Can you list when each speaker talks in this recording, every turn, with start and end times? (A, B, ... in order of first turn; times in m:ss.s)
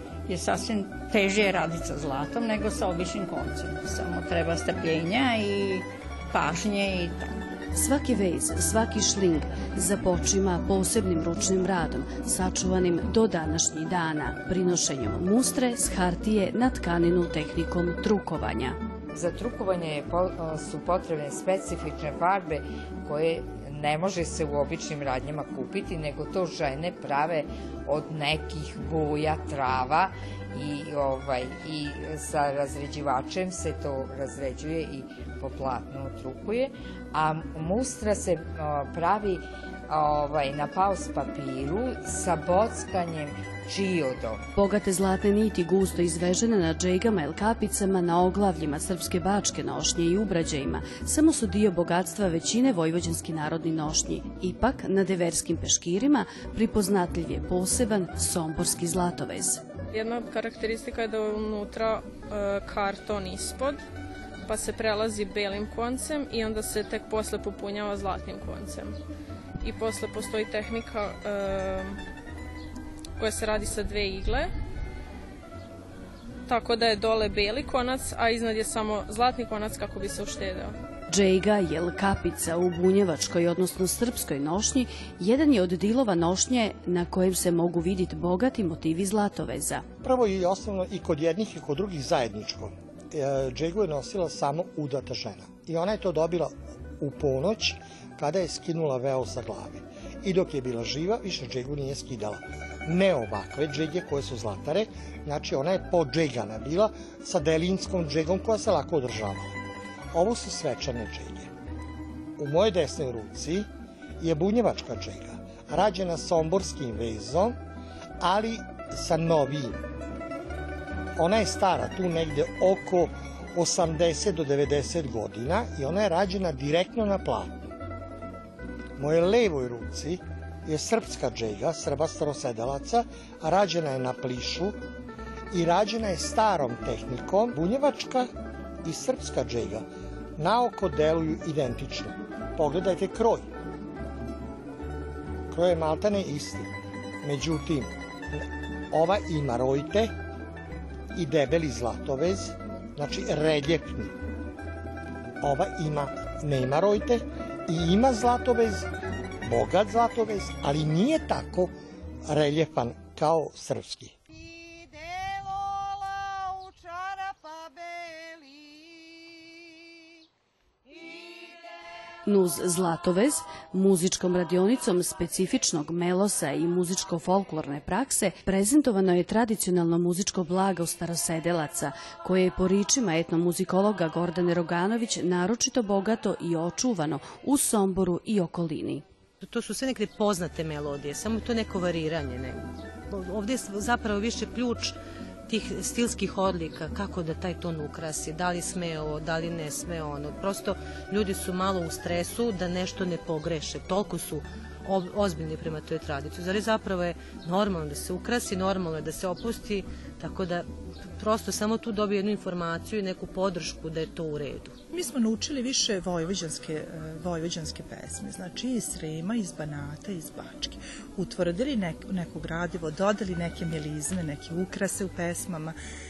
0:00.3-0:07.4 A
0:07.7-0:18.8 B
0:19.1-0:44.4 C
0:44.5-0:59.6 B
0:59.9-1:03.8 D
1:04.4-1:08.9 D
1:09.6-1:12.0 D
1:13.2-1:14.5 D
1:16.5-1:20.7 D
1:21.1-1:29.8 B
1:30.0-1:49.6 E
1:50.1-1:51.5 E
1:52.4-1:53.7 E
1:54.2-1:57.6 E
1:58.2-1:59.8 E
2:01.2-2:07.6 E
2:09.0-2:14.8 E
2:15.5-2:18.3 E
2:18.8-2:19.8 E
2:20.4-2:23.5 E
2:25.5-2:26.7 E
2:27.2-2:30.1 E
2:31.1-2:34.1 E
2:35.4-2:38.9 E
2:39.4-2:41.7 E
2:42.2-2:44.1 E
2:52.2-3:09.0 B
3:09.4-3:14.9 F
3:15.5-3:30.6 F
3:31.2-3:34.7 F
3:34.9-3:45.8 G